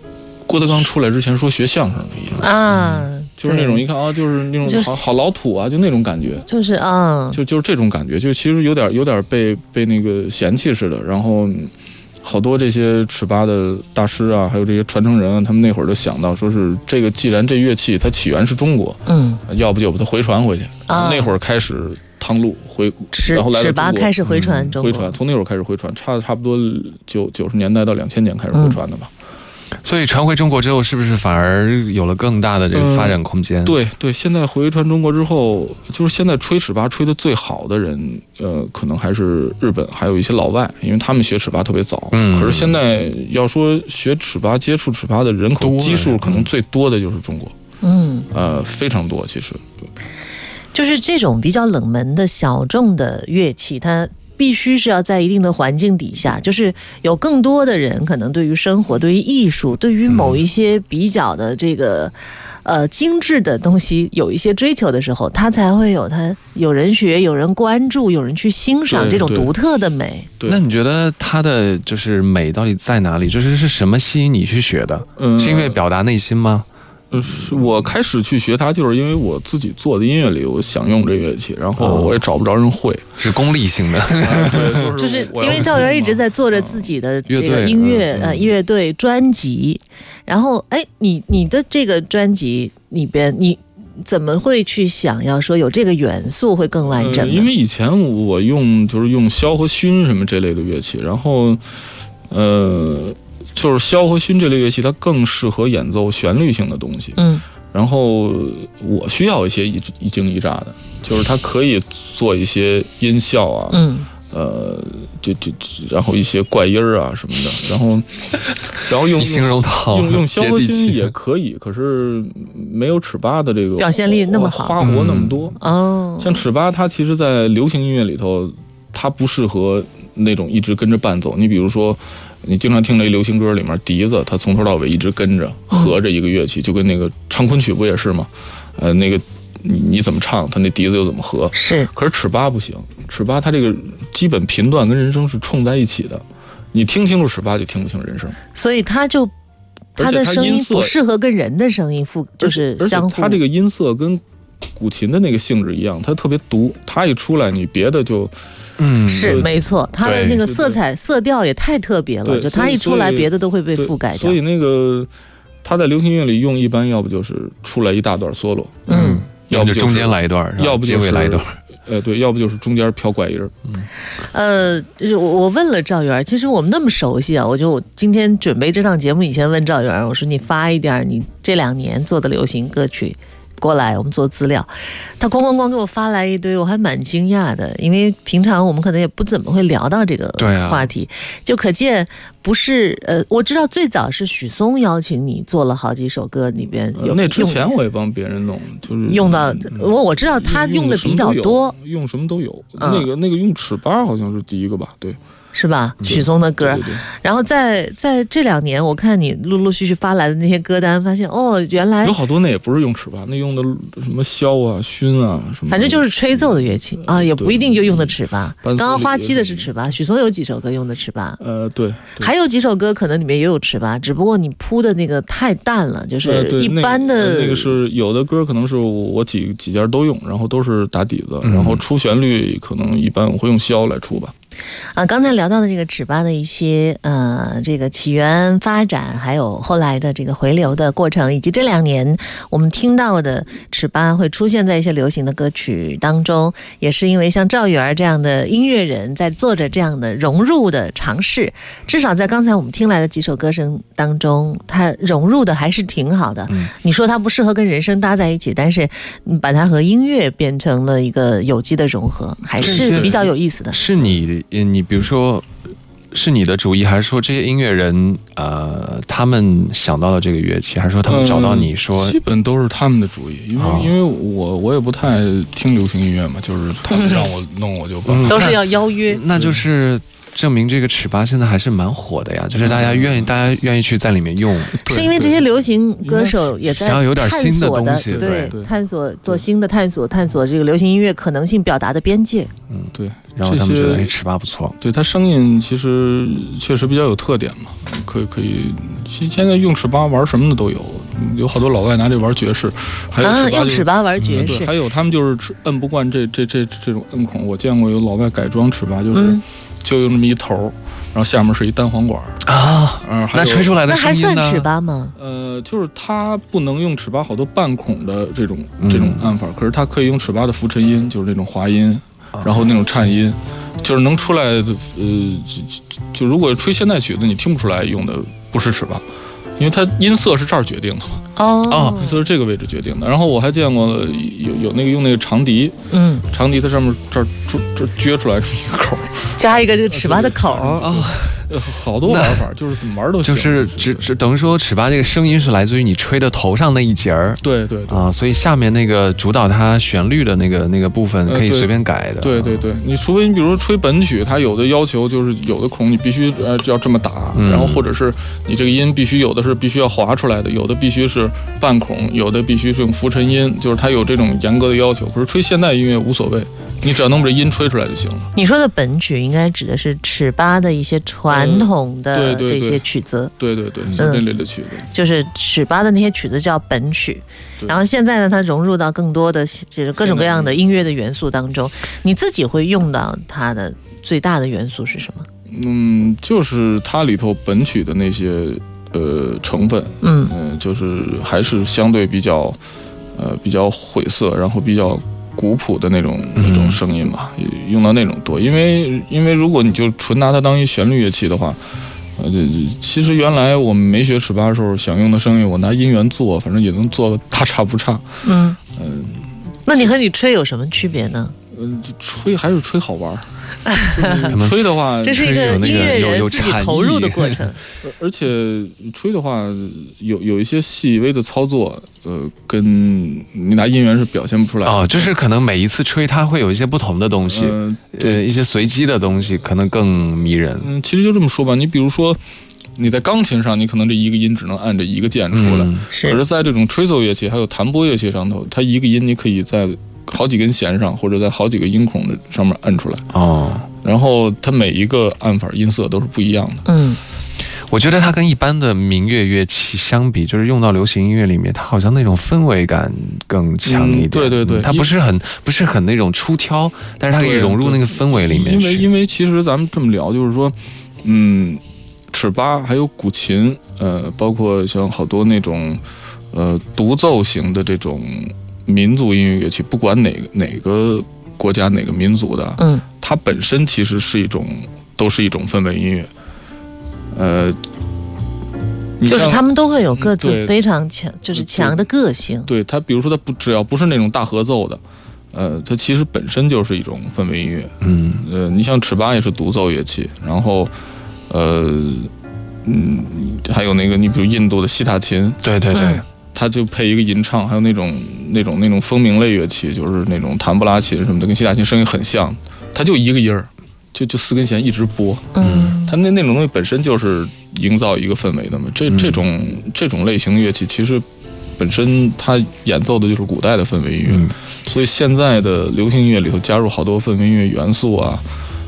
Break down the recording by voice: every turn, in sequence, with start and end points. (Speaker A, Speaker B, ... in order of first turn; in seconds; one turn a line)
Speaker A: 0.5-2.5
Speaker B: 2.4-3.8
Speaker C: 2.7-3.1
Speaker A: 3.4-6.4
Speaker B: 4.6-5.1
Speaker B: 6.4-7.4
Speaker A: 7.3-11.7
Speaker A: 12.2-24.2
Speaker B: 19.1-19.4
Speaker B: 20.9-21.3
Speaker B: 23.1-25.1
Speaker C: 24.2-24.7
Speaker A: 24.8-29.1
Speaker B: 28.5-28.8
Speaker C: 29.8-33.8
Speaker A: 32.7-47.5
Speaker C: 42.1-42.8
Speaker C: 45.6-46.5
Speaker B: 47.8-48.3
Speaker A: 48.3-49.6
Speaker B: 50.7-70.3
Speaker C: 60.1-60.4
Speaker A: 68.9-69.5
Speaker C: 70.5-76.7
Speaker A: 75.2-75.8
Speaker A: 77.1-83.1
Speaker C: 81.8-82.2
Speaker C: 83.2-84.9
Speaker A: 84.2-86.9
Speaker B: 85.0-97.5
Speaker C: 87.3-88.5
Speaker A: 96.8-101.6
Speaker A: 102.3-107.2
Speaker B: 107.2-107.4
Speaker A: 107.7-118.1
Speaker B: 113.7-114.1
Speaker A: 118.7-125.6
Speaker C: 119.1-121.1
Speaker B: 123.8-124.9
Speaker C: 124.8-125.5
Speaker B: 125.6-126.4
Speaker A: 126.2-148.4
Speaker B: 141.5-141.9
Speaker B: 148.5-149.3
Speaker B: 149.9-153.4
Speaker A: 150.0-150.9
Speaker A: 152.4-154.2
Speaker A: 154.8-158.3
Speaker C: 158.8-159.5
Speaker B: 159.1-164.4
Speaker A: 159.2-159.5
Speaker C: 160.0-160.4
Speaker A: 160.4-160.8
Speaker A: 162.2-165.1
Speaker A: 165.6-173.7
Speaker B: 168.9-169.2
Speaker C: 168.9-171.5
Speaker B: 174.2-197.6
Speaker C: 190.4-190.9
Speaker A: 196.9-205.2
Speaker B: 199.1-201.8
Speaker B: 202.8-203.1
Speaker B: 205.5-212.2
Speaker A: 206.1-207.0
Speaker A: 212.0-219.7
Speaker B: 215.7-221.4
Speaker A: 221.4-222.3
Speaker B: 222.2-227.8
Speaker A: 226.2-234.3
Speaker C: 231.4-231.8
Speaker B: 234.9-263.8
Speaker C: 256.5-256.7
Speaker C: 262.6-265.5
Speaker A: 262.6-263.2
Speaker C: 266.1-272.2
Speaker A: 271.1-278.6
Speaker C: 273.6-273.9
Speaker B: 276.9-277.3
Speaker C: 278.1-284.8
Speaker B: 278.3-279.2
Speaker A: 279.3-279.6
Speaker A: 282.6-283.3
Speaker A: 284.7-285.4
Speaker B: 284.8-292.5
Speaker A: 286.0-286.4
Speaker C: 286.6-288.6
Speaker A: 288.1-288.7
Speaker C: 292.7-294.8
Speaker A: 292.9-294.1
Speaker A: 294.8-312.4
Speaker B: 303.2-304.7
Speaker C: 304.2-304.6
Speaker B: 309.1-309.4
Speaker C: 312.4-314.7
Speaker A: 313.0-313.8
Speaker B: 313.9-315.1
Speaker A: 315.2-329.0
Speaker C: 318.8-319.2
Speaker A: 329.6-331.2
Speaker B: 331.4-332.2
Speaker C: 331.7-332.0
Speaker A: 331.9-335.8
Speaker B: 335.9-336.2
Speaker A: 336.3-344.1
Speaker B: 339.4-341.1
Speaker C: 340.8-341.4
Speaker C: 342.1-342.4
Speaker C: 343.2-352.6
Speaker A: 347.4-348.1
Speaker A: 351.3-368.3
Speaker C: 357.3-357.9
Speaker B: 368.3-373.3
Speaker A: 371.3-372.8
Speaker A: 373.4-374.9
Speaker B: 373.9-374.2
Speaker B: 374.9-385.3
Speaker A: 380.0-380.6
Speaker A: 385.5-392.6
Speaker B: 390.0-390.3
Speaker A: 393.1-401.6
Speaker C: 396.4-396.8
Speaker A: 402.2-408.2
Speaker B: 408.2-408.6
Speaker A: 408.7-409.9
Speaker B: 409.6-411.3
Speaker A: 411.5-415.3
Speaker B: 413.6-414.3
Speaker C: 414.3-417.4
Speaker B: 415.0-417.6
Speaker A: 417.8-425.1
Speaker C: 424.6-430.7
Speaker A: 427.3-428.3
Speaker A: 430.6-432.2
Speaker A: 432.8-443.1
Speaker C: 435.3-435.9
Speaker B: 435.9-436.2
Speaker C: 443.1-443.7
Speaker A: 443.8-446.7
Speaker B: 446.6-447.0
Speaker C: 447.6-458.9
Speaker A: 453.6-454.9
Speaker A: 457.2-461.6
Speaker A: 462.1-465.8
Speaker A: 466.3-476.1
Speaker B: 472.6-472.8
Speaker A: 477.1-477.6
Speaker A: 479.0-479.4
Speaker B: 479.1-482.5
Speaker A: 479.9-480.5
Speaker A: 481.3-481.9
Speaker A: 482.5-484.8
Speaker A: 485.3-490.7
Speaker C: 487.8-488.3
Speaker A: 491.3-492.1
Speaker A: 492.6-495.4
Speaker C: 495.4-496.0
Speaker B: 495.7-496.0
Speaker A: 496.3-511.0
Speaker B: 505.4-506.0
Speaker C: 505.4-505.7
Speaker C: 508.9-509.2
Speaker A: 511.6-518.2
Speaker C: 514.1-514.3